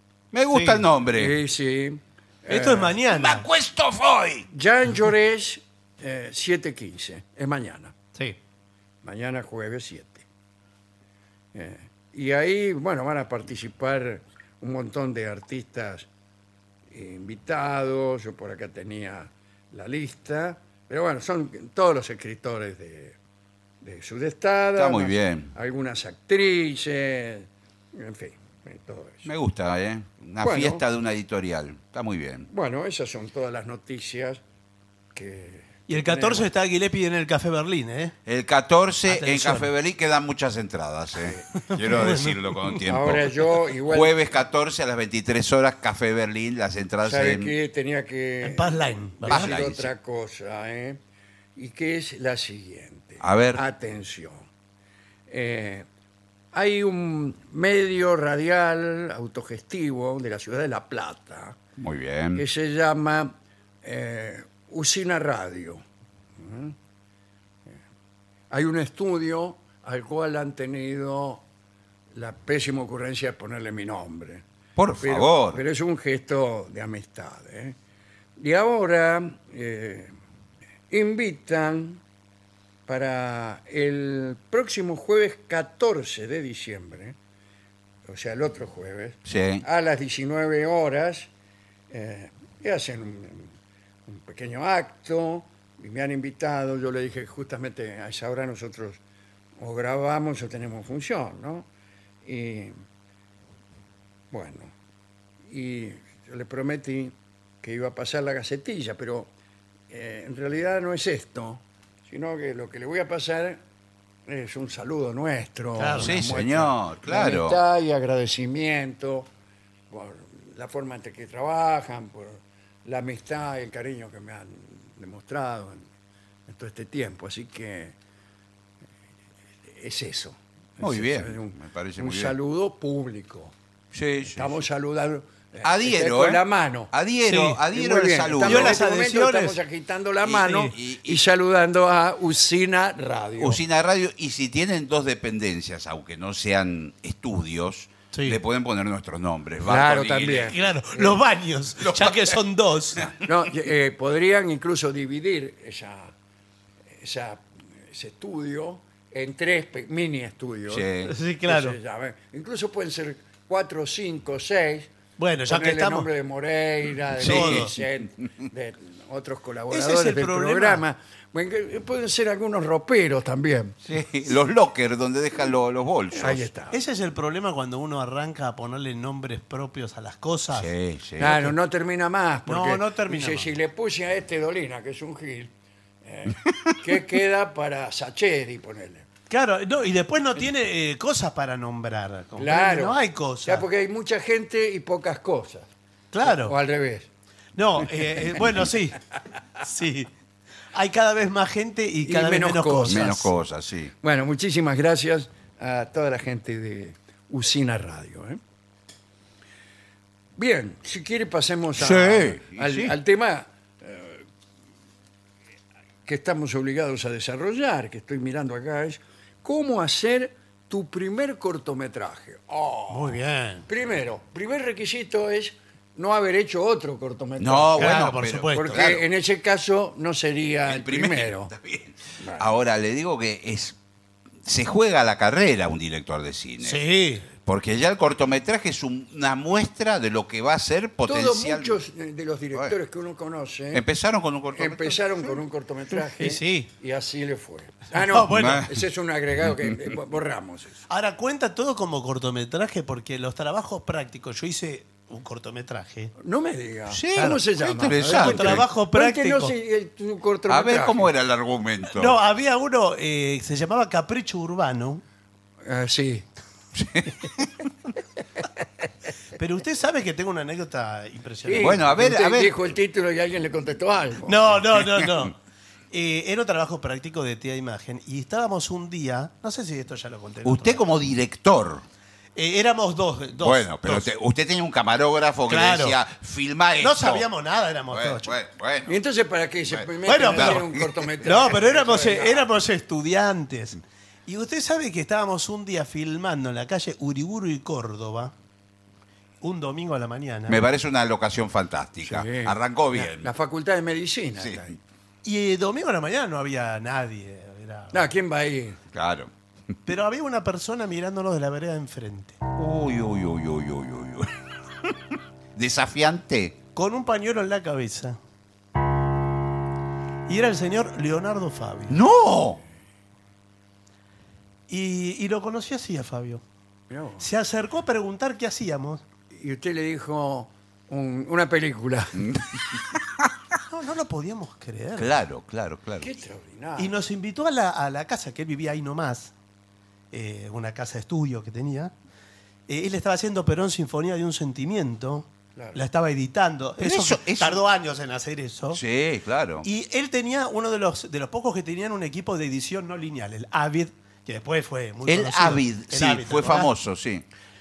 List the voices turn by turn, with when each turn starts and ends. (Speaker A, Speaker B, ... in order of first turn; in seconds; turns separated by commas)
Speaker A: 0.3-1.3, Speaker B: 0.5-0.8, Speaker C: 1.1-3.0, Speaker B: 2.5-3.5, Speaker A: 3.1-4.5, Speaker C: 4.5-8.0, Speaker C: 9.0-10.2, Speaker C: 11.5-16.1, Speaker C: 16.9-23.2, Speaker C: 23.8-29.3, Speaker A: 24.8-25.5, Speaker A: 29.2-32.5, Speaker C: 30.4-30.8, Speaker C: 32.5-34.4, Speaker C: 35.1-36.5, Speaker B: 35.9-38.1, Speaker A: 38.3-47.5, Speaker B: 39.1-39.7, Speaker B: 41.6-42.8, Speaker C: 42.9-44.1, Speaker C: 47.0-51.0, Speaker B: 48.4-49.6, Speaker A: 49.3-49.9, Speaker C: 51.6-54.5, Speaker A: 53.2-53.6, Speaker C: 55.3-55.9, Speaker C: 56.5-61.6, Speaker A: 61.8-62.4, Speaker C: 62.4-65.8, Speaker C: 66.4-66.8, Speaker C: 68.5-71.4, Speaker C: 72.1-74.5, Speaker A: 74.8-75.6, Speaker C: 75.0-77.8, Speaker C: 78.4-80.1, Speaker C: 80.9-82.0, Speaker C: 82.9-87.2, Speaker C: 88.1-91.3, Speaker A: 89.3-89.7, Speaker C: 91.9-93.5, Speaker C: 94.1-99.0, Speaker C: 99.6-101.7, Speaker C: 102.2-102.8, Speaker C: 104.3-104.7, Speaker C: 105.5-109.3, Speaker C: 109.9-113.6, Speaker C: 114.3-119.3, Speaker B: 115.8-116.1, Speaker A: 116.0-117.6, Speaker C: 119.9-125.8, Speaker C: 126.5-128.0, Speaker C: 129.7-133.5, Speaker A: 130.8-132.4, Speaker A: 133.9-134.6, Speaker C: 134.3-136.9, Speaker A: 135.6-138.8, Speaker B: 137.3-137.6, Speaker C: 137.7-143.6, Speaker B: 138.4-139.6, Speaker A: 140.2-141.2, Speaker B: 140.4-140.7, Speaker A: 143.4-150.6, Speaker B: 148.1-148.4, Speaker C: 149.7-151.2, Speaker B: 150.5-153.1, Speaker A: 151.8-152.4, Speaker C: 153.2-156.1, Speaker C: 156.9-160.9, Speaker A: 160.7-161.1, Speaker B: 161.0-161.8, Speaker C: 161.4-164.9, Speaker B: 165.2-166.1, Speaker C: 165.5-173.8, Speaker B: 167.2-167.8, Speaker A: 167.2-167.8, Speaker B: 169.7-170.8, Speaker A: 173.8-176.5, Speaker C: 176.1-176.8, Speaker B: 176.7-180.7, Speaker A: 180.5-181.4, Speaker C: 181.2-185.5, Speaker B: 182.5-183.5, Speaker C: 186.0-189.1, Speaker B: 189.3-193.7, Speaker C: 192.4-195.7, Speaker B: 196.1-196.6, Speaker C: 196.2-197.1, Speaker B: 197.6-199.0, Speaker B: 199.6-200.1, Speaker B: 200.7-203.3, Speaker C: 202.1-203.1, Speaker A: 202.9-203.9, Speaker C: 204.0-208.4, Speaker C: 210.4-214.3, Speaker A: 211.8-213.0, Speaker C: 216.1-231.5, Speaker B: 222.9-223.7, Speaker A: 227.4-229.1, Speaker B: 227.8-228.8, Speaker A: 230.7-233.8, Speaker C: 232.2-232.5, Speaker A: 234.4-236.8, Speaker B: 236.6-237.3, Speaker A: 237.4-241.8, Speaker C: 241.1-243.8, Speaker A: 243.7-245.2, Speaker C: 244.5-250.8, Speaker B: 246.2-246.7, Speaker B: 248.0-248.7, Speaker A: 248.3-248.7, Speaker B: 250.9-256.1, Speaker C: 256.2-261.1, Speaker A: 256.9-258.6, Speaker B: 258.1-259.5, Speaker A: 260.5-262.2, Speaker B: 261.9-265.0, Speaker C: 265.6-266.3, Speaker A: 266.8-267.7, Speaker B: 269.4-271.9, Speaker C: 271.4-274.4, Speaker A: 271.6-272.7, Speaker B: 274.3-275.4, Speaker A: 274.8-275.1, Speaker B: 275.9-280.8, Speaker A: 280.4-281.8, Speaker B: 282.4-284.1, Speaker A: 283.4-287.3, Speaker B: 285.5-286.0, Speaker B: 286.8-288.4, Speaker A: 287.9-289.0, Speaker C: 288.9-292.5, Speaker A: 289.7-291.4, Speaker B: 290.1-290.7, Speaker B: 291.2-298.3, Speaker B: 299.4-300.6, Speaker A: 300.5-303.3, Speaker C: 302.0-304.8, Speaker A: 304.4-304.7, Speaker B: 305.2-308.1, Speaker C: 307.9-308.8, Speaker A: 308.9-309.3, Speaker B: 309.9-312.4, Speaker A: 312.6-316.6, Speaker B: 316.8-318.2, Speaker B: 320.3-322.0, Speaker A: 321.9-322.6, Speaker B: 324.7-326.4, Speaker C: 326.9-327.3, Speaker B: 327.2-329.0, Speaker C: 329.3-332.4, Speaker A: 332.2-333.3, Speaker B: 333.7-335.2, Speaker A: 335.0-336.1, Speaker C: 336.0-336.9, Speaker B: 336.8-339.3, Speaker B: 340.1-341.9, Speaker B: 342.7-348.8, Speaker C: 345.6-345.8, Speaker A: 346.8-347.6, Speaker A: 348.7-349.7, Speaker B: 349.6-356.7, Speaker A: 355.1-357.2